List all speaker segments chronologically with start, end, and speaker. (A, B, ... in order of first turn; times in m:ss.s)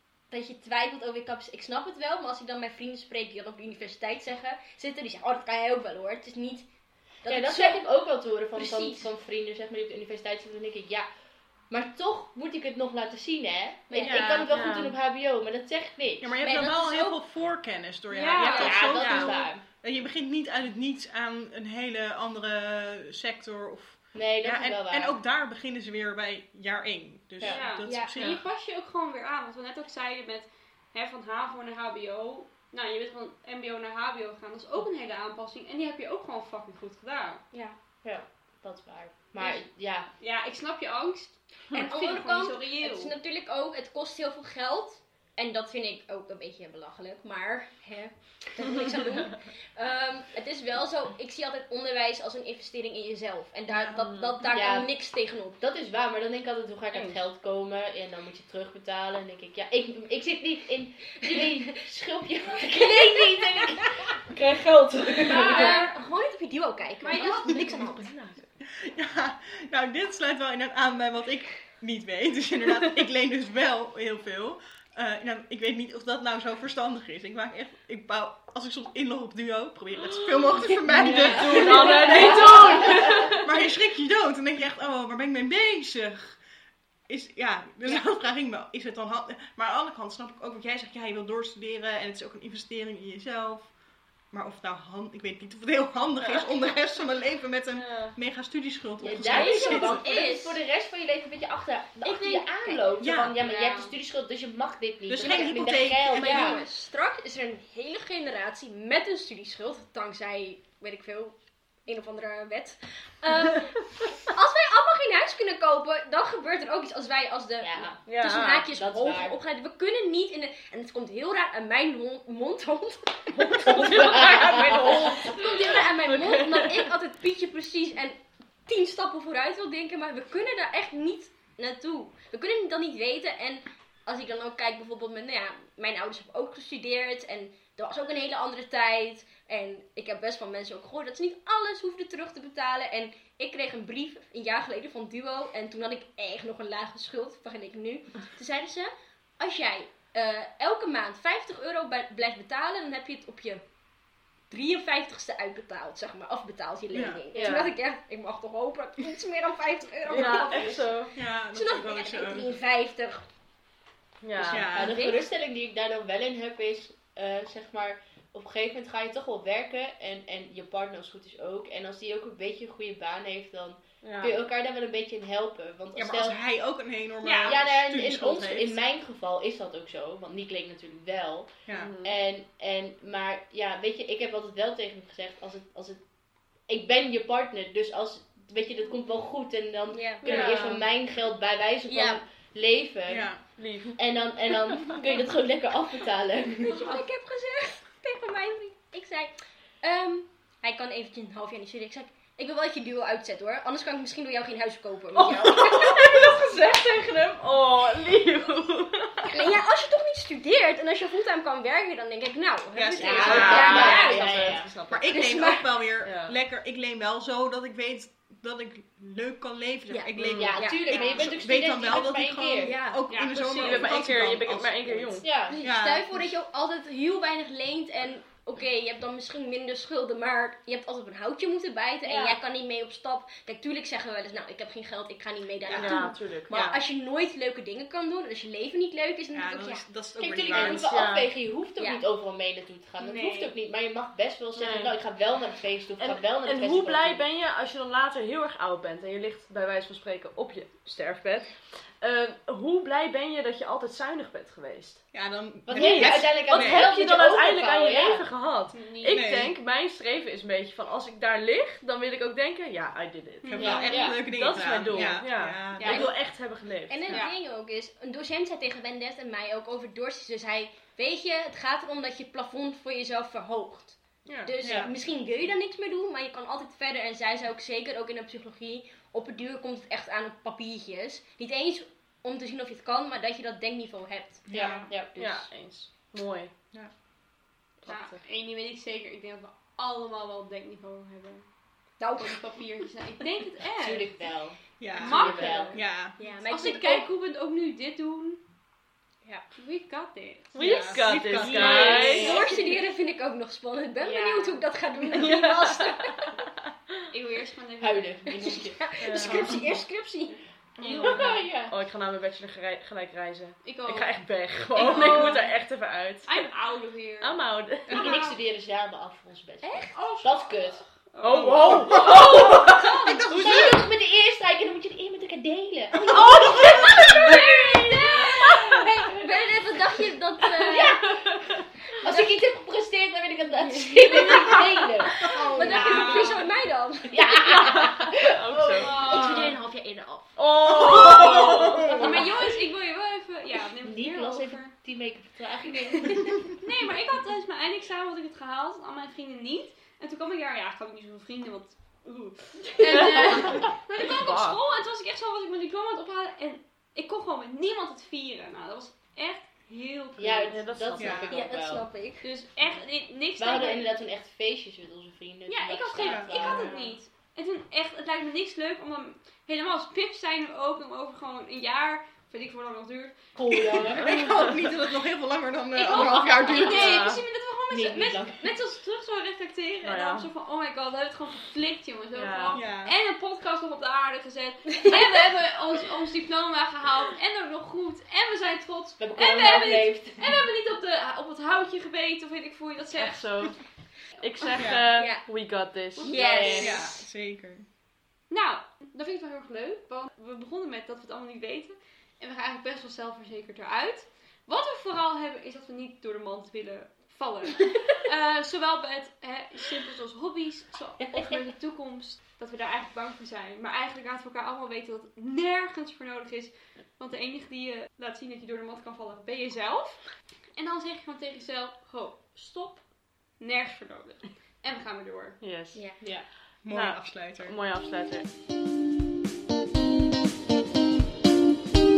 0:00.3-0:06.7 A
0:07.2-0:07.8 A
0:07.3-0:11.1 B
0:08.6-0:09.1 A
0:11.7-0:16.3 B
0:13.9-0:14.5 A
0:14.0-0:15.0 C
0:14.0-0:14.5 D
0:16.2-0:28.4 D
0:16.4-0:17.2 A
0:18.1-0:19.0 E
0:18.4-0:19.6 B
0:19.0-0:19.4 C
0:24.1-0:25.2 B
0:27.4-0:37.4 E
0:27.8-0:28.1 A
0:28.2-0:28.4 C
0:37.5-0:37.8 A
0:38.0-0:40.1 B
0:40.2-0:43.2 E
0:41.7-0:55.6 A
0:53.7-0:54.5 C
0:54.4-0:54.9 B
0:55.6-1:05.8 B
0:56.9-0:57.2 C
1:02.6-1:04.0 A
1:05.2-1:06.0 E
1:05.2-1:08.2 A
1:07.0-1:07.8 E
1:07.7-1:08.4 C
1:08.6-1:22.3 D
1:20.2-1:23.5 C
1:21.0-1:23.4 B
1:22.1-1:22.8 A
1:23.0-1:26.4 D
1:27.1-1:33.7 D
1:34.3-1:40.0 D
1:36.2-1:36.5 C
1:37.7-1:38.2 C
1:39.0-1:46.6 B
1:39.2-1:40.6 A
1:42.0-1:42.9 A
1:43.0-1:43.4 D
1:43.4-1:43.9 E
1:45.1-1:46.6 D
1:45.2-2:33.6 A
1:57.6-1:58.0 B
1:58.1-1:58.7 C
1:58.7-1:59.4 B
2:03.3-2:06.9 C
2:03.7-2:04.9 B
2:34.5-2:43.2 A
2:36.9-2:37.3 D
2:37.3-2:37.7 B
2:37.4-2:37.7 C
2:40.1-2:41.1 C
2:41.2-2:42.6 D
2:44.2-2:44.8 C
2:44.5-2:45.1 D
2:44.5-2:56.4 B
2:44.7-2:45.3 A
2:54.0-2:54.4 C
2:56.0-2:58.8 D
2:57.2-2:57.6 E
2:57.5-3:06.0 B
3:01.7-3:02.0 D
3:01.7-3:02.2 C
3:06.7-3:13.3 B
3:09.9-3:10.5 A
3:10.2-3:10.8 C
3:11.9-3:12.2 A
3:13.1-3:13.4 D
3:13.6-3:14.0 C
3:14.0-3:17.0 B
3:16.6-3:26.5 A
3:25.1-3:29.5 C
3:29.3-3:34.5 A
3:32.7-3:34.2 D
3:33.0-3:34.7 B
3:33.1-3:35.1 C
3:34.9-3:46.3 D
3:35.1-3:35.9 A
3:36.0-3:36.3 C
3:39.9-3:41.3 A
3:40.2-3:40.6 C
3:40.2-3:42.8 B
3:42.6-3:43.0 A
3:43.1-3:43.9 E
3:43.3-3:45.3 C
3:45.2-3:45.6 B
3:45.5-3:59.9 A
3:52.0-3:52.4 B
3:55.7-3:56.1 D
3:55.7-3:56.8 C
3:59.3-4:00.9 D
4:00.2-4:07.2 B
4:00.6-4:01.3 C
4:03.0-4:03.5 E
4:04.6-4:05.0 C
4:06.0-4:15.0 C
4:15.1-4:16.9 D
4:15.6-4:18.3 B
4:15.7-4:27.2 C
4:18.7-4:19.3 E
4:19.1-4:19.5 D
4:23.4-4:24.2 E
4:23.5-4:26.0 D
4:23.6-4:24.1 B
4:25.8-4:26.1 E
4:25.9-4:26.2 A
4:26.9-4:44.4 A
4:27.1-4:27.3 E
4:34.3-4:34.6 C
4:34.6-4:34.9 D
4:34.6-4:34.9 B
4:44.5-4:44.8 D
4:44.5-4:44.9 E
4:44.5-4:45.5 B
4:45.2-4:46.5 C
4:47.8-4:48.2 C
4:47.9-4:51.4 E
4:52.0-4:52.4 A
4:52.2-4:54.2 E
4:53.8-4:55.8 B
4:54.8-4:56.2 D
4:54.9-4:55.8 E
4:56.2-4:57.1 A
4:56.5-4:58.4 E
4:59.6-5:02.9 E
5:00.6-5:02.5 C
5:00.6-5:02.4 D
5:00.9-5:06.3 A
5:04.0-5:04.6 E
5:05.1-5:06.5 C
5:07.1-5:08.2 E
5:07.8-5:09.8 B
5:08.4-5:10.4 A
5:09.0-5:09.6 C
5:10.8-5:11.3 D
5:10.8-5:11.4 E
5:11.0-5:11.8 B
5:11.1-5:16.5 C
5:13.6-5:14.1 E
5:14.7-5:15.5 E
5:16.3-5:18.4 E
5:17.2-5:18.1 C
5:17.9-5:20.8 B
5:19.6-5:19.9 A
5:19.9-5:23.4 E
5:21.2-5:23.8 C
5:21.4-5:22.2 D
5:21.7-5:27.5 B
5:23.4-5:23.7 A
5:26.1-5:27.0 D
5:26.3-5:31.0 A
5:26.4-5:27.6 C
5:27.2-5:28.2 E
5:28.2-5:28.7 C
5:30.6-5:31.4 B
5:31.2-5:31.6 C
5:32.0-5:36.4 B
5:32.0-5:32.4 A
5:33.6-5:37.8 A
5:35.3-5:36.5 E
5:37.1-5:39.6 B
5:37.6-5:39.1 C
5:38.8-5:39.6 E
5:39.0-5:40.3 A
5:40.4-5:42.2 C
5:40.7-5:42.1 D
5:41.9-5:42.1 A
5:41.9-5:44.7 E
5:43.8-5:46.5 B
5:46.6-6:00.6 E
5:52.8-5:54.6 C
6:00.2-6:01.9 B
6:00.5-6:01.3 C
6:01.0-6:01.4 D
6:01.3-6:02.3 A
6:02.2-6:03.9 E
6:03.4-6:06.8 B
6:05.5-6:13.2 E
6:06.0-6:06.5 D
6:13.4-6:14.1 B
6:13.7-6:17.1 D
6:14.1-6:14.5 C
6:15.7-6:33.2 E
6:16.5-6:17.2 C
6:17.7-6:18.5 B
6:19.8-6:20.3 C
6:22.2-6:22.6 C
6:22.5-6:23.0 D
6:29.0-6:30.2 B
6:33.0-6:36.3 C
6:34.6-6:34.9 D
6:34.9-6:35.2 A
6:36.0-6:36.8 E
6:36.0-6:36.9 A
6:36.1-6:36.8 B
6:36.6-6:37.7 D
6:38.3-7:00.0 E
7:00.6-7:02.8 E
7:03.4-7:05.4 E
7:05.4-7:05.9 C
7:06.6-7:07.6 D
7:06.7-7:08.3 C